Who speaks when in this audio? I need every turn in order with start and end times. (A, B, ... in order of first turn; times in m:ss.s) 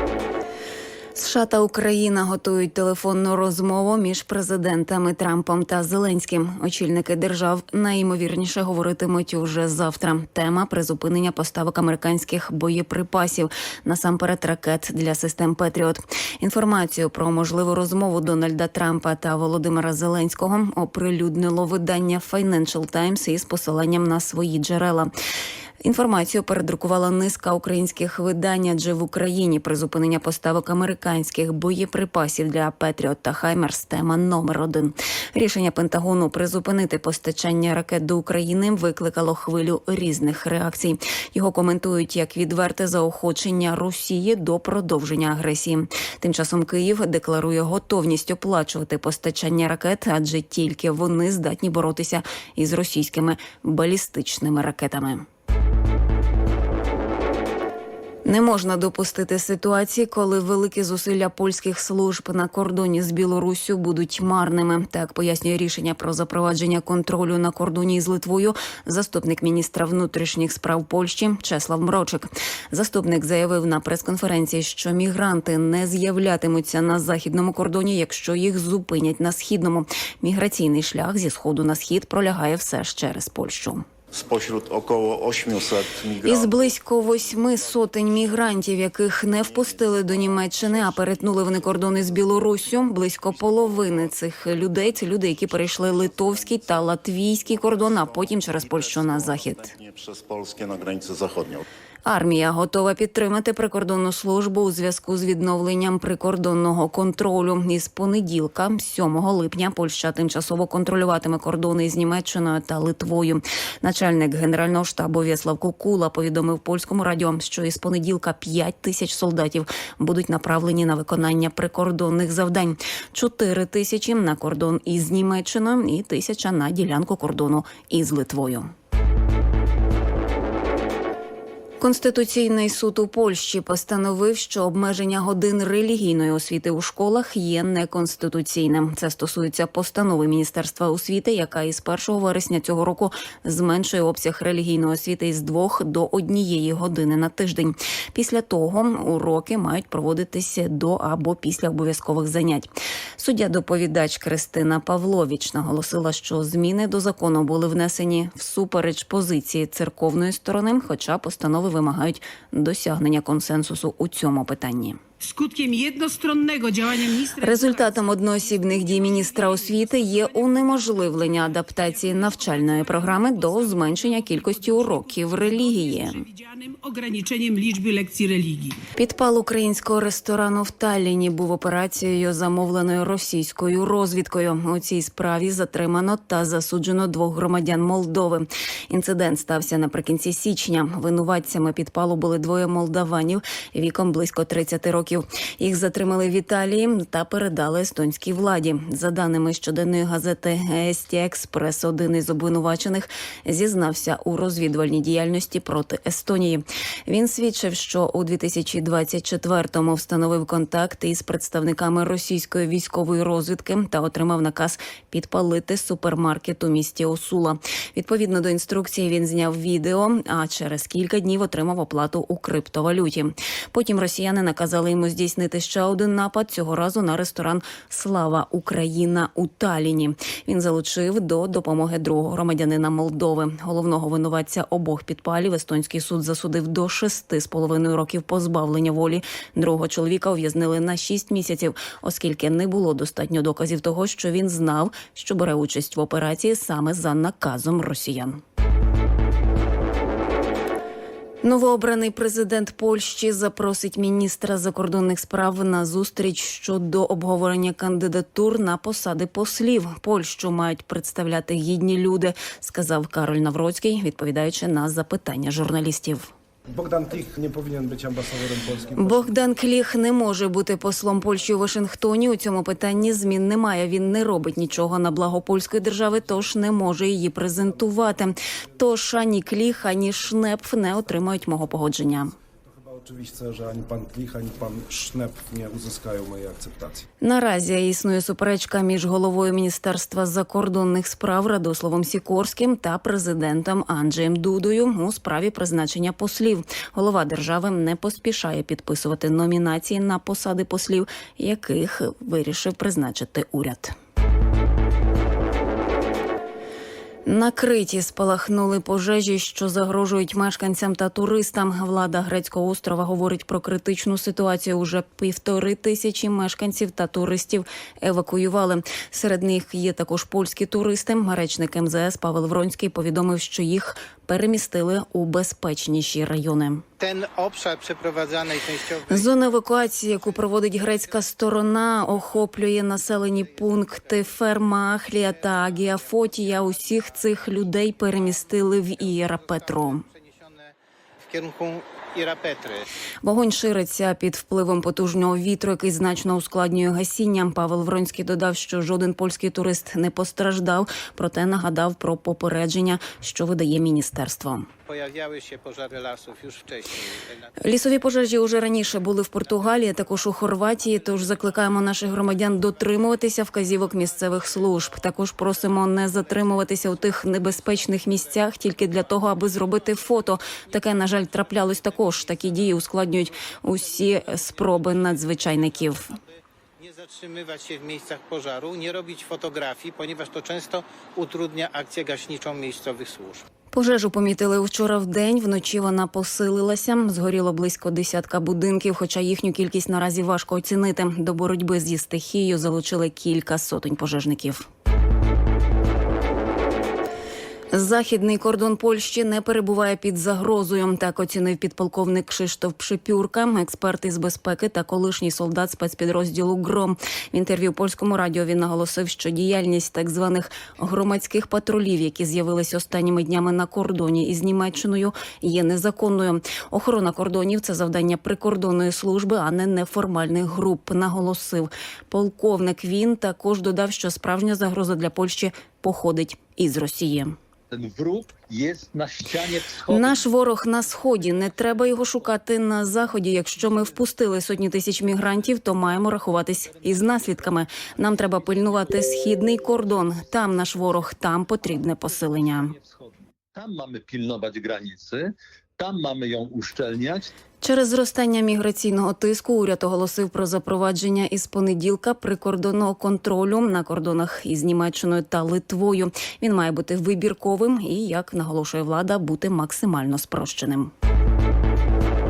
0:01.2-0:25.1 A
0:25.8-0:55.2 A
0:58.2-1:23.8 A
1:24.1-1:41.7 B
1:26.2-1:39.7 A
1:42.0-2:08.7 A
2:11.8-2:45.0 A
2:45.2-2:58.8 C
2:47.4-2:56.3 A
2:58.9-4:08.4 A
4:11.4-4:26.3 A
4:26.7-4:29.5 D
4:29.0-4:42.4 A
4:42.7-4:47.1 D
4:47.2-5:03.9 A
5:07.3-5:26.8 A
5:27.0-5:42.9 E
5:29.1-5:40.0 A
5:43.2-5:54.7 A
5:54.9-5:57.6 E
5:57.6-6:16.2 A
5:59.4-6:23.5 E
6:23.7-6:34.7 A
6:37.7-7:07.4 A
7:07.7-7:10.2 F
7:09.9-7:22.8 A
7:16.7-7:27.3 F
7:27.6-7:40.9 A